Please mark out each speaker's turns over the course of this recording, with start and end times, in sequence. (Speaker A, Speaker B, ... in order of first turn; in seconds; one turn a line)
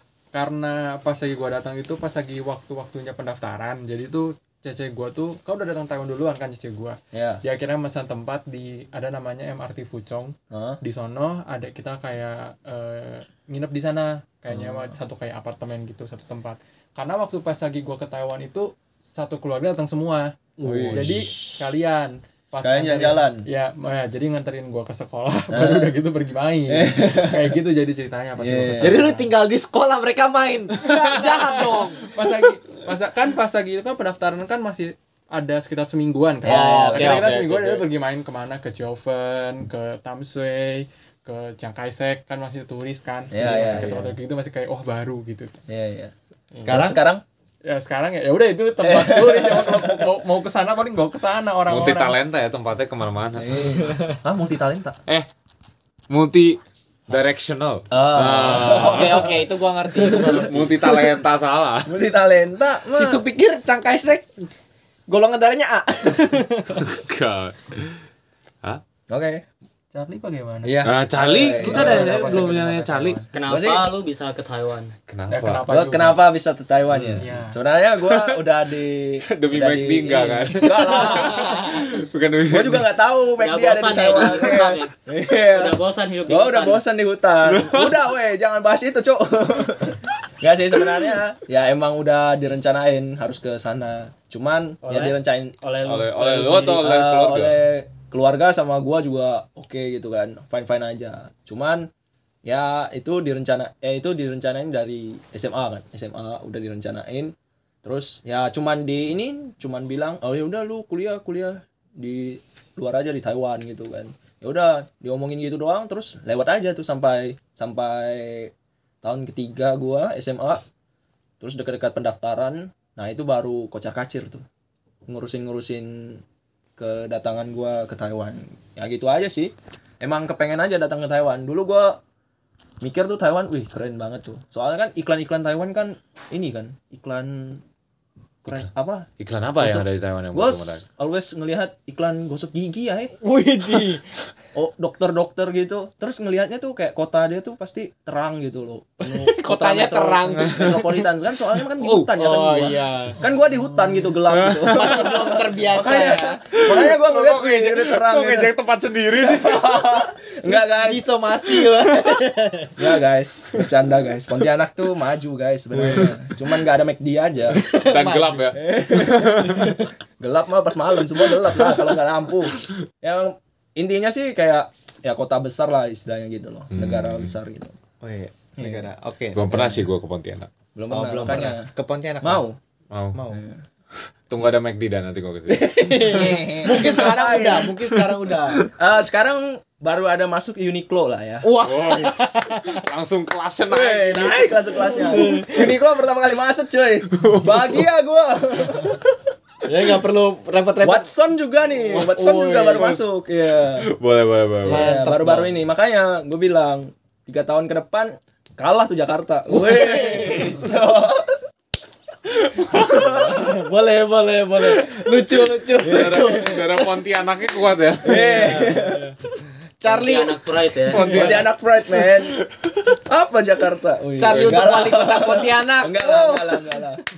Speaker A: 0.3-29.3
Speaker B: 7.1-7.4
Speaker B: 10.5-10.8
Speaker B: 14.5-15.0
Speaker B: 20.6-21.7
Speaker B: 22.6-23.4
Speaker B: 25.5-25.9
Speaker B: 26.7-27.6
Speaker B: 28.4-29.0
Speaker C: 28.8-32.1
Speaker A: 30.8-45.5
Speaker B: 36.4-37.3
Speaker C: 36.4-37.7
Speaker D: 37.0-37.6
Speaker B: 43.3-44.0
Speaker C: 43.4-44.0
Speaker B: 45.7-47.2
Speaker C: 46.6-47.0
Speaker A: 47.6-52.2
Speaker B: 48.8-50.1
Speaker D: 51.7-53.7
Speaker B: 53.4-55.0
Speaker D: 56.1-59.3
Speaker B: 57.9-59.4
Speaker C: 58.4-61.1
Speaker B: 59.9-60.6
Speaker D: 60.0-62.0
Speaker B: 61.9-63.2
Speaker C: 62.9-64.3
Speaker C: 65.1-67.0
Speaker D: 66.8-68.0
Speaker B: 69.1-69.4
Speaker A: 69.9-70.8
Speaker C: 70.6-72.3
Speaker D: 70.8-73.2
Speaker B: 71.2-72.1
Speaker A: 71.5-73.3
Speaker E: 73.3-74.9
Speaker B: 73.4-73.9
Speaker D: 75.1-75.6
Speaker A: 75.3-76.2
Speaker B: 75.7-81.8
Speaker D: 76.9-77.2
Speaker A: 77.2-77.6
Speaker D: 78.0-78.4
Speaker D: 79.3-82.9
Speaker C: 80.8-81.7
Speaker B: 82.5-95.5
Speaker E: 83.4-84.9
Speaker E: 85.5-86.8
Speaker D: 87.5-88.0
Speaker E: 94.8-96.8
Speaker D: 95.8-97.5
Speaker B: 96.7-101.9
Speaker B: 102.4-120.6
Speaker B: 121.4-124.4
Speaker B: 125.1-126.2
Speaker B: 126.8-132.0
Speaker B: 132.8-137.6
Speaker B: 138.4-143.1
Speaker D: 138.4-140.8
Speaker C: 143.2-144.0
Speaker B: 144.5-158.5
Speaker C: 149.0-150.9
Speaker D: 150.4-151.0
Speaker D: 151.7-152.1
Speaker C: 152.1-153.2
Speaker D: 154.3-155.5
Speaker C: 154.6-156.4
Speaker D: 156.5-159.7
Speaker B: 159.2-161.1
Speaker C: 160.4-162.8
Speaker B: 162.8-167.6
Speaker C: 167.5-168.7
Speaker D: 167.7-169.8
Speaker B: 168.5-169.6
Speaker C: 169.5-169.8
Speaker B: 170.2-177.8
Speaker D: 176.7-177.3
Speaker C: 178.0-179.8
Speaker B: 178.6-178.9
Speaker D: 179.3-180.5
Speaker B: 180.7-181.7
Speaker C: 180.9-182.4
Speaker B: 182.2-182.6
Speaker D: 182.9-183.2
Speaker C: 183.1-183.4
Speaker B: 183.3-183.6
Speaker D: 184.3-187.0
Speaker C: 185.5-188.7
Speaker B: 186.0-187.8
Speaker B: 188.6-191.5
Speaker C: 191.4-192.8
Speaker D: 191.6-194.4
Speaker B: 193.7-199.2
Speaker C: 194.7-195.7
Speaker D: 197.1-197.7
Speaker C: 199.6-201.1
Speaker B: 200.8-203.9
Speaker C: 201.9-203.0
Speaker D: 203.8-205.0
Speaker B: 204.6-211.4
Speaker C: 204.7-205.5
Speaker C: 209.5-210.5
Speaker D: 212.6-212.9
Speaker C: 212.6-216.9
Speaker B: 212.8-213.6
Speaker D: 215.8-218.6
Speaker B: 215.8-216.5
Speaker B: 218.0-219.1
Speaker C: 218.0-219.1
Speaker C: 219.8-220.4
Speaker E: 219.8-221.1
Speaker D: 220.9-222.8
Speaker C: 220.9-221.4
Speaker B: 220.9-227.0
Speaker C: 224.2-226.6
Speaker D: 224.3-224.7